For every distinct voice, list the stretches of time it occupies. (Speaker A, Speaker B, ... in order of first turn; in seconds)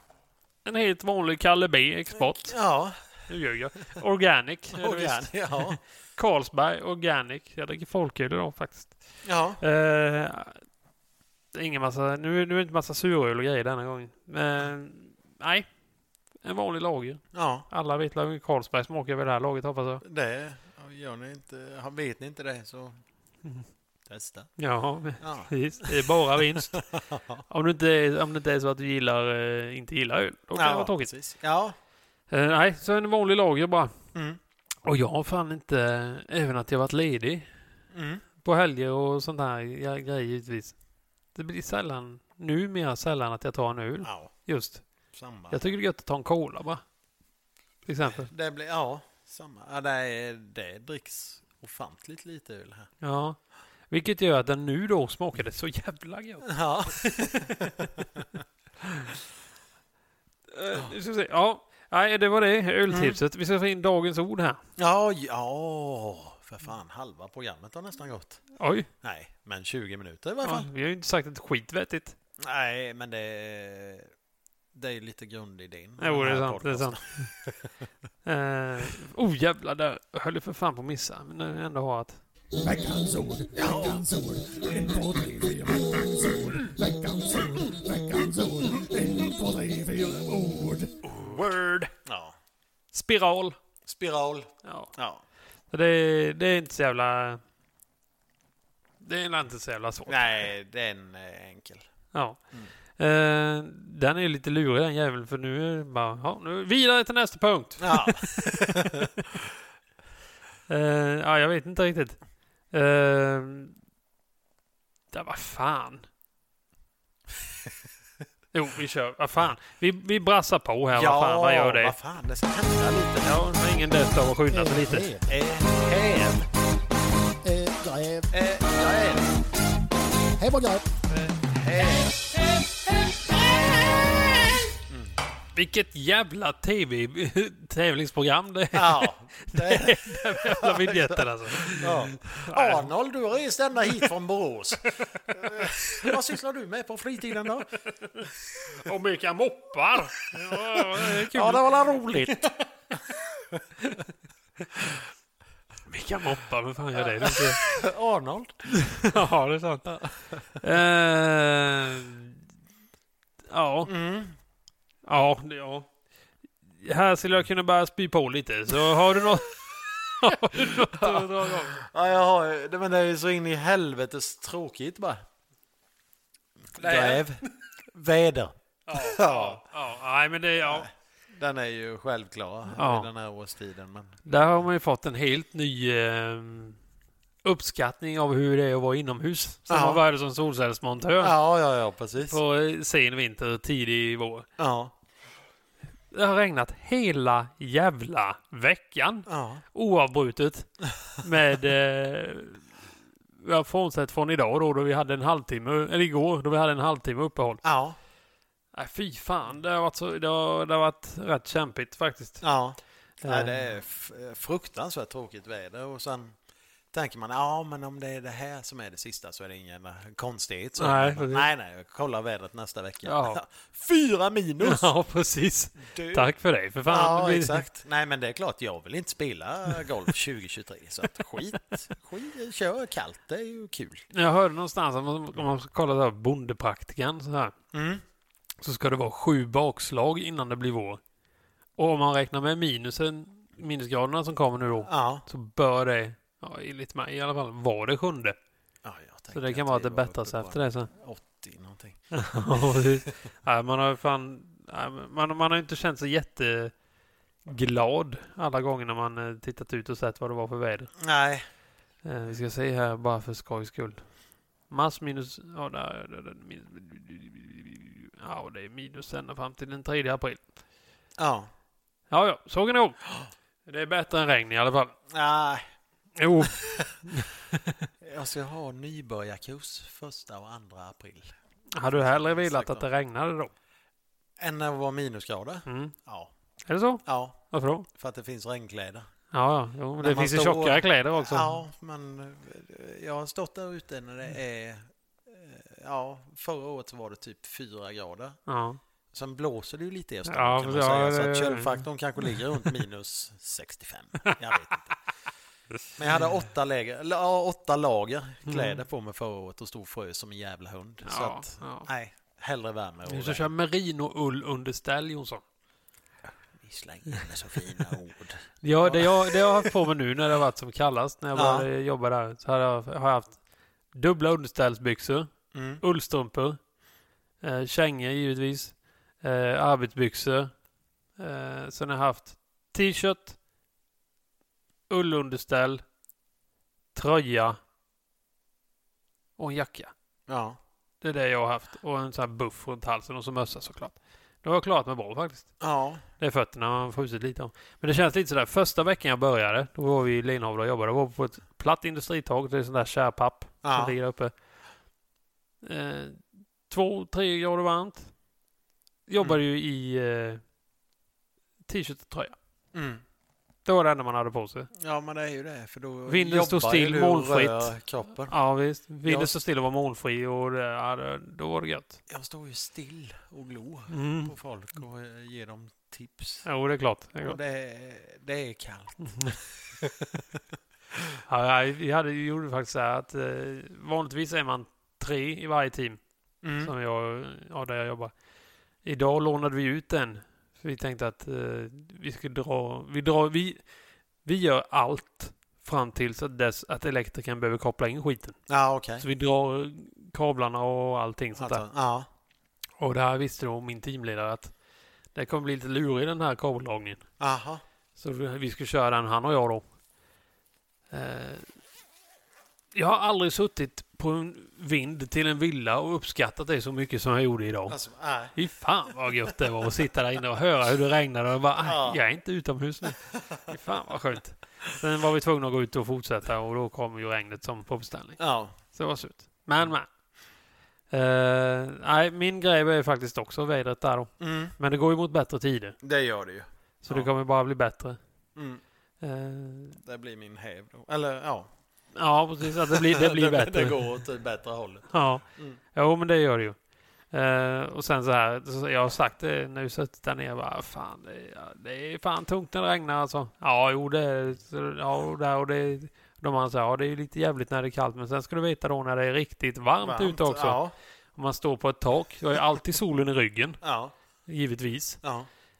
Speaker A: 0.7-2.6, 3.3-9.1, 9.6-10.6, 11.5-15.7, 16.4-20.0, 24.6-26.9, 27.5-31.1, 32.3-33.9, 34.8-37.5, 38.4-40.8, 41.4-44.8, 45.5-46.8, 47.9-48.3, 53.0-53.4, 53.9-58.0, 58.8-59.1, 60.5-64.6, 68.5-68.9, 70.4-72.2, 76.0-77.3, 78.2-82.2, 91.0-91.9, 92.9-93.6, 94.6-94.9, 95.7-97.4, 99.0-100.5, 102.1-102.4, 103.0-109.1, 110.7-112.2, 112.7-113.8, 115.1-116.1, 118.5-122.0, 123.2-125.1, 135.5-142.9, 145.0-146.1, 147.8-153.2, 153.8-154.1, 155.9-157.6, 158.9-162.4, 163.5-163.9, 165.1-165.9, 166.8-169.5, 170.2-171.8, 176.8-177.3, 178.9-180.9, 182.7-183.1, 184.3-186.8, 187.4-191.4, 192.3-194.5, 196.1-202.7, 203.4-207.6, 208.7-212.4, 213.2-213.6, 220.8-221.5, 223.0-223.4, 224.6-227.7, 234.1-237.5, 238.6-241.0, 241.8-248.4, 249.3-250.9, 252.1-256.7, 257.5-260.9, 262.0-264.0, 264.7-270.5, 272.1-273.0, 273.7-274.9, 276.2-277.9, 281.7-283.5, 285.7-285.9, 286.7-287.9, 289.3-291.6, 298.5-298.8, 300.3-302.8, 308.5-308.8, 311.0-311.9, 313.1-315.4, 317.6-317.9, 318.6-323.4, 323.9-326.6, 327.4-330.5, 331.2-333.4, 334.9-335.8, 336.9-337.6, 339.4-339.9, 341.0-345.6, 346.2-354.3, 355.6-358.1, 359.1-360.4, 361.6-362.4, 363.6-364.7, 366.1-372.0, 373.9-374.3, 376.4-377.4, 381.3-386.0, 386.6-388.1, 388.8-393.6, 394.2-398.4, 399.0-401.6, 402.8-404.5, 405.1-407.0, 408.0-409.7, 410.9-411.5, 412.7-417.8, 418.3-429.9, 430.9-435.8, 436.8-438.0, 439.0-439.8, 441.9-444.0, 444.9-446.6, 447.1-460.6, 461.1-463.6, 464.3-465.0
Speaker B: 2.2-3.1, 4.7-5.8, 9.2-9.6, 17.3-17.7, 20.0-23.0, 24.1-24.5, 25.2-26.1, 26.7-27.4, 30.6-31.8, 34.1-34.4, 37.9-38.2, 44.0-44.3, 45.1-45.7, 48.2-52.9, 56.5-58.3, 62.9-63.2, 64.8-68.4, 69.0-70.7, 72.4-74.1, 74.7-77.7, 83.6-84.0, 92.0-92.4, 93.9-95.2, 100.1-101.9, 107.8-109.1, 120.9-123.3, 124.5-126.5, 127.4-129.3, 130.4-132.2, 134.9-135.2, 138.7-147.7, 150.5-152.4, 157.0-159.2, 163.8-164.4, 170.6-175.2, 176.8-179.6, 180.6-184.2, 189.7-190.0, 191.2-192.4, 194.6-194.9, 199.3-199.6, 207.6-208.0, 212.4-216.4, 216.9-224.9, 225.8-226.3, 226.9-234.1, 237.7-238.0, 244.9-245.2, 248.8-252.0, 261.0-261.5, 271.2-271.5, 275.1-275.6, 276.6-277.0, 278.0-281.3, 281.8-282.9, 284.4-286.3, 287.1-287.4, 287.9-289.1, 290.0-298.4, 299.1-305.0, 305.9-313.5, 316.2-319.8, 321.4-321.7, 325.5-325.8, 340.3-340.6, 345.6-346.0, 353.6-354.0, 362.7-363.0, 364.7-368.4, 369.0-369.4, 372.1-376.5, 377.2-379.9, 386.4-386.7, 398.5-399.1, 401.4-402.1, 407.2-407.6, 417.7-418.4, 421.6-422.0, 428.2-428.6, 434.2-434.6, 435.8-437.1, 438.4-438.6, 439.8-441.5, 442.6-445.6, 459.8-460.7, 463.6-463.9, 465.0-465.3
Speaker C: 82.6-91.0